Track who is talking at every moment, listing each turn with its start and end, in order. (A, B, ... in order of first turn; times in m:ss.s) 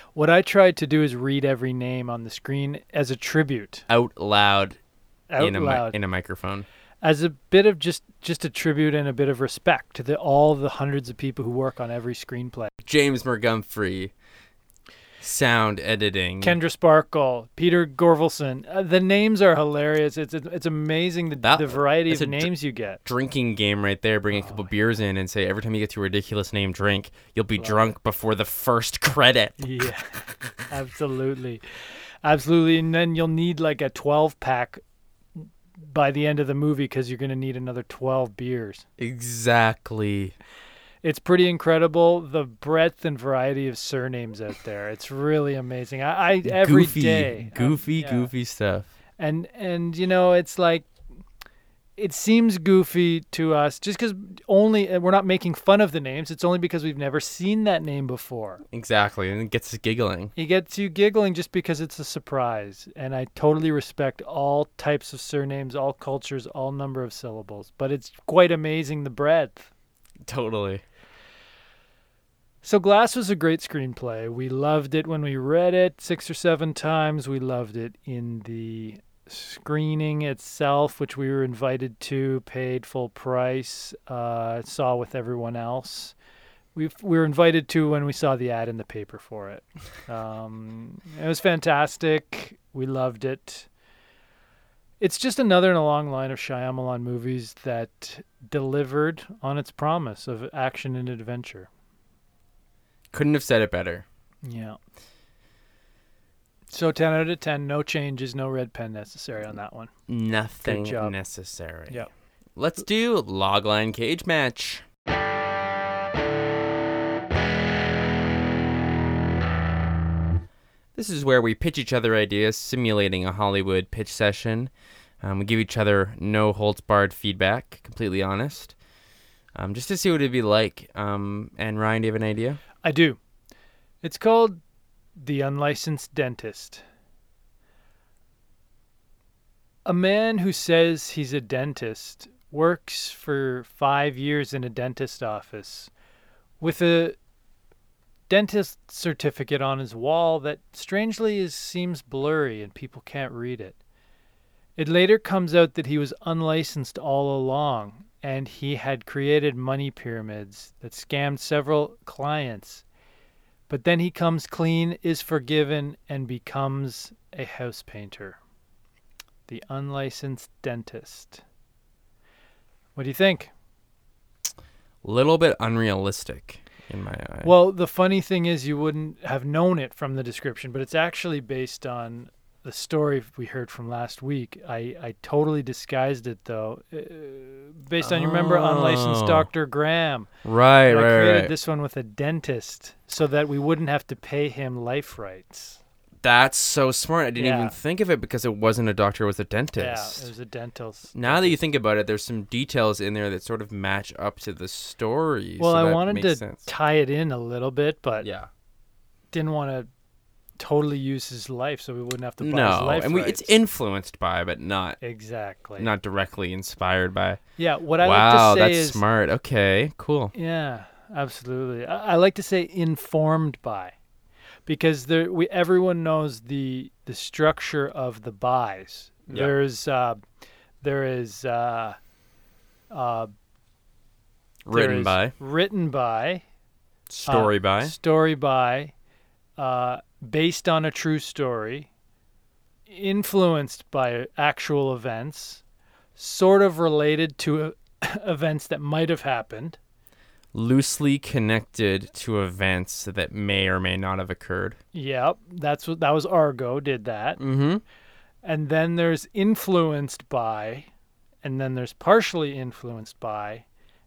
0:00.2-0:03.9 A
0:03.9-0:04.8 B
0:05.3-0:06.0 A
0:05.4-0:06.7 B
0:07.0-0:12.7 A
0:12.8-0:14.1 B
0:15.2-0:16.6 B
0:16.4-0:23.0 A
0:21.4-0:29.9 B
0:27.6-0:27.9 A
0:29.6-0:34.8 A
0:35.4-0:38.8 A
0:39.0-0:40.4 B
0:41.0-0:48.3 A
0:46.4-0:48.9 B
0:49.2-0:51.0 A
0:52.0-0:58.6 A
0:58.7-1:00.3 B
1:00.4-1:09.7 A
1:10.2-1:10.8 B
1:12.6-1:26.2 A
1:26.8-1:33.7 A
1:35.0-1:41.7 A
1:43.1-1:44.0 B
1:44.4-1:44.8 A
1:46.7-1:49.9 A
1:50.1-1:54.8 B
1:50.6-1:51.2 A
2:01.0-2:08.8 B
2:09.6-2:12.6 B
2:12.8-2:13.2 A
2:14.0-2:14.6 A
2:15.2-2:16.8 A
2:19.9-2:25.9 A
2:26.6-2:27.2 A
2:28.3-2:33.8 A
2:34.8-2:42.8 A
2:43.7-2:48.4 A
2:49.5-2:51.4 A
2:53.0-2:53.5 A
2:55.0-2:57.5 B
2:57.4-3:10.3 A
3:08.0-3:09.5 B
3:10.4-3:11.5 B
3:10.8-3:15.8 A
3:16.2-3:20.3 B
3:17.4-3:17.8 A
3:19.8-3:21.6 A
3:21.2-3:26.7 B
3:25.6-3:28.3 A
3:28.2-3:28.5 B
3:29.3-3:29.9 A
3:30.6-3:33.6 A
3:32.4-3:35.1 B
3:35.0-3:35.9 A
3:35.8-3:40.3 B
3:37.6-3:39.0 A
3:40.3-3:44.0 A
3:44.7-3:50.2 A
3:50.8-3:52.0 A
3:52.9-3:53.3 A
3:54.7-3:55.3 B
3:54.7-3:56.4 A
3:57.1-3:57.9 B
3:57.3-3:58.9 A
3:59.6-4:01.9 A
4:02.9-4:05.6 A
4:06.2-4:09.8 A
4:10.5-4:14.8 B
4:14.9-4:17.4 A
4:17.4-4:17.8 B
4:18.4-4:20.9 A
4:21.4-4:23.7 A